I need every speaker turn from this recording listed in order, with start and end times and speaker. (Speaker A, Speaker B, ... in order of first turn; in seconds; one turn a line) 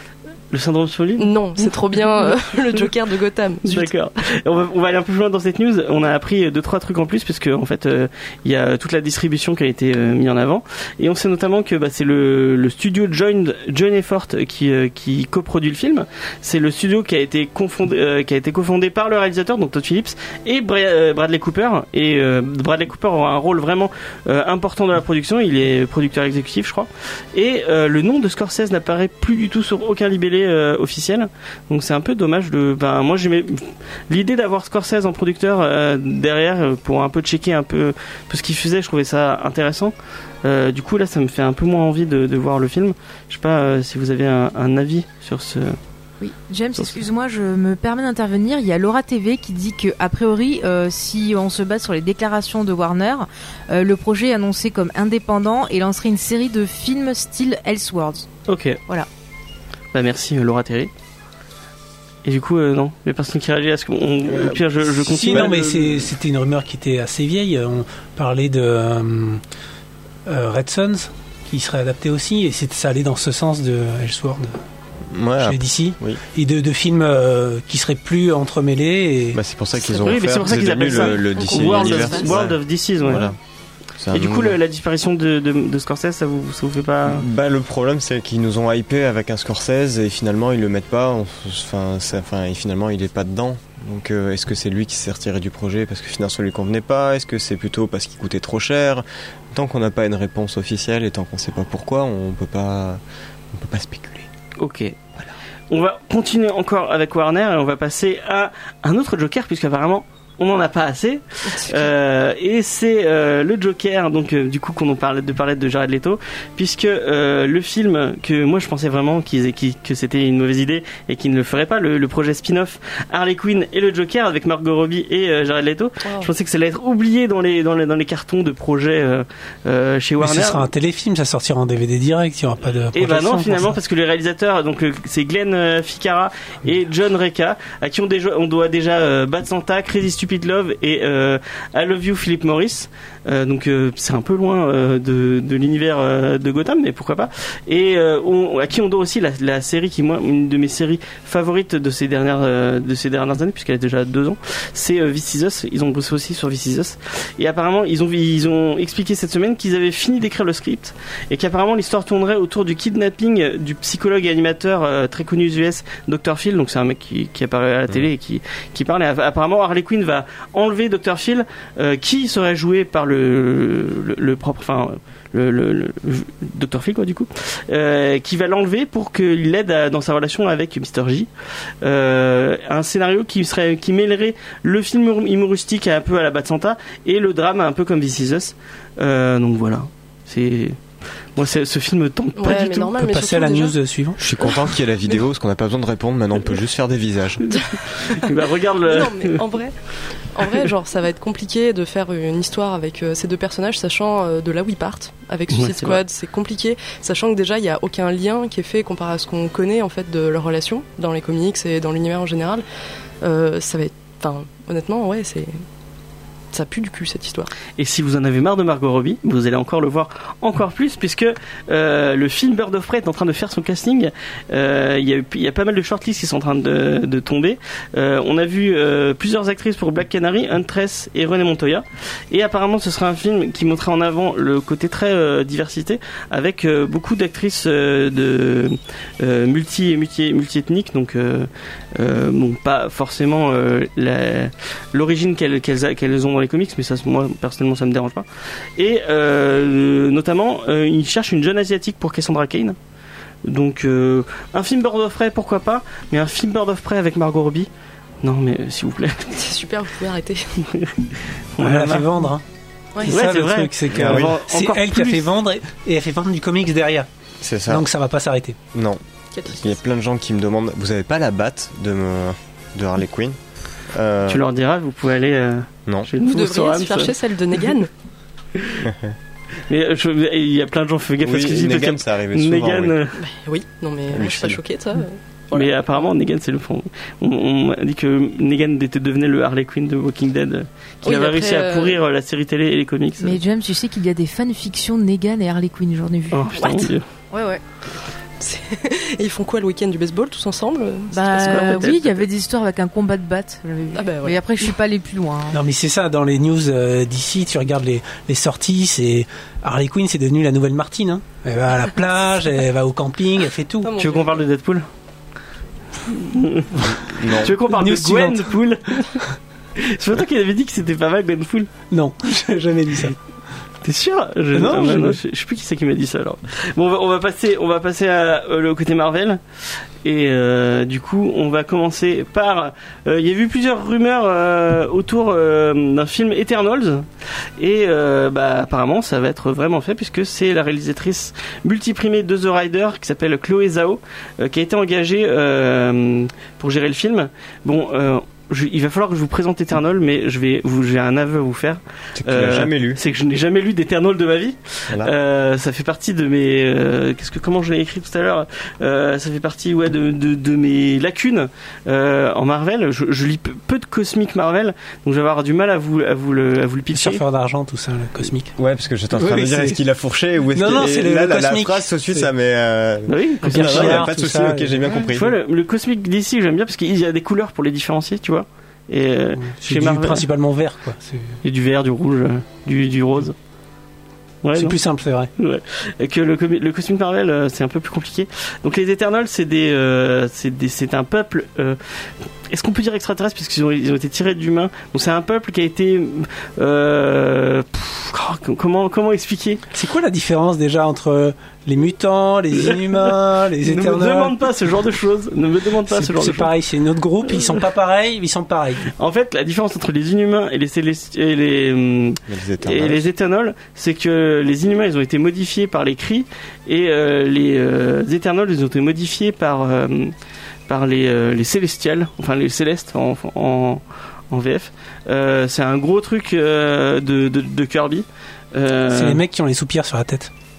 Speaker A: 0.5-1.3
Speaker B: 1.2-3.9
Speaker A: 3.6-45.8
Speaker C: 46.2-58.3
Speaker A: 58.5-58.8
Speaker A: 59.9-60.9
Speaker A: 62.2-66.1
Speaker D: 65.0-69.4
Speaker D: 70.2-74.6
Speaker E: 75.1-76.2
Speaker D: 75.4-79.4
Speaker E: 79.3-83.4
Speaker A: 79.9-83.3
Speaker B: 81.3-82.2
Speaker E: 84.0-84.6
Speaker A: 84.1-87.2
Speaker E: 87.0-103.0
Speaker E: 103.5-104.3
Speaker A: 104.6-105.0
Speaker A: 105.7-130.7
Speaker B: 111.5-111.9
Speaker B: 126.0-126.3
Speaker D: 130.2-133.8
Speaker A: 132.9-181.3
Speaker A: 181.8-190.8
Speaker A: 191.4-192.9
Speaker B: 192.4-193.8
Speaker D: 193.0-194.2
Speaker E: 194.2-197.6
Speaker A: 198.0-199.4
Speaker B: 198.8-199.8
Speaker B: 200.3-212.6
Speaker A: 205.5-206.0
Speaker B: 213.2-215.5
Speaker B: 216.5-217.5
Speaker A: 217.8-248.2
Speaker A: 248.8-252.8
Speaker A: 253.4-257.7
Speaker A: 258.2-259.4
Speaker B: 259.3-260.6
Speaker A: 260.7-260.9
Speaker A: 261.6-262.1
Speaker D: 261.6-262.4
Speaker D: 263.0-267.1
Speaker A: 263.1-265.2
Speaker E: 263.9-264.3
Speaker E: 267.4-267.9
Speaker D: 267.7-268.6
Speaker E: 268.7-273.4
Speaker B: 269.3-269.8
Speaker E: 273.9-274.4
Speaker A: 274.3-277.1
Speaker B: 276.2-277.9
Speaker A: 278.6-278.9
Speaker E: 278.8-279.1
Speaker A: 279.7-283.2
Speaker E: 281.2-283.0
Speaker B: 283.2-286.1
Speaker E: 284.1-284.6
Speaker A: 285.5-293.4
Speaker B: 291.0-292.0
Speaker C: 293.2-297.6
Speaker A: 296.3-297.0
Speaker B: 298.4-302.2
Speaker C: 301.1-305.6
Speaker A: 301.4-301.9
Speaker B: 303.9-304.7
Speaker D: 305.5-313.9
Speaker B: 313.8-314.4
Speaker A: 314.0-314.9
Speaker A: 316.1-319.2
Speaker E: 316.9-317.5
Speaker D: 317.7-318.5
Speaker A: 319.8-321.7
Speaker D: 321.9-323.2
Speaker A: 323.8-329.4
Speaker D: 324.5-325.2
Speaker A: 330.0-337.1
Speaker A: 337.6-367.2
Speaker E: 352.2-353.0
Speaker D: 366.9-368.5
Speaker E: 368.6-375.4
Speaker D: 369.2-369.8
Speaker D: 370.5-372.3
Speaker A: 373.1-374.1
Speaker D: 373.4-374.9
Speaker A: 375.0-380.3
Speaker D: 379.4-381.4
Speaker A: 381.4-383.3
Speaker A: 384.4-384.8
Speaker D: 384.5-385.3
Speaker A: 385.4-391.8
Speaker A: 392.5-399.6
Speaker D: 399.7-404.4
Speaker A: 402.5-406.5
Speaker D: 405.9-408.9
Speaker A: 409.0-420.1
Speaker E: 412.3-413.1
Speaker A: 420.7-429.2
Speaker D: 428.9-430.3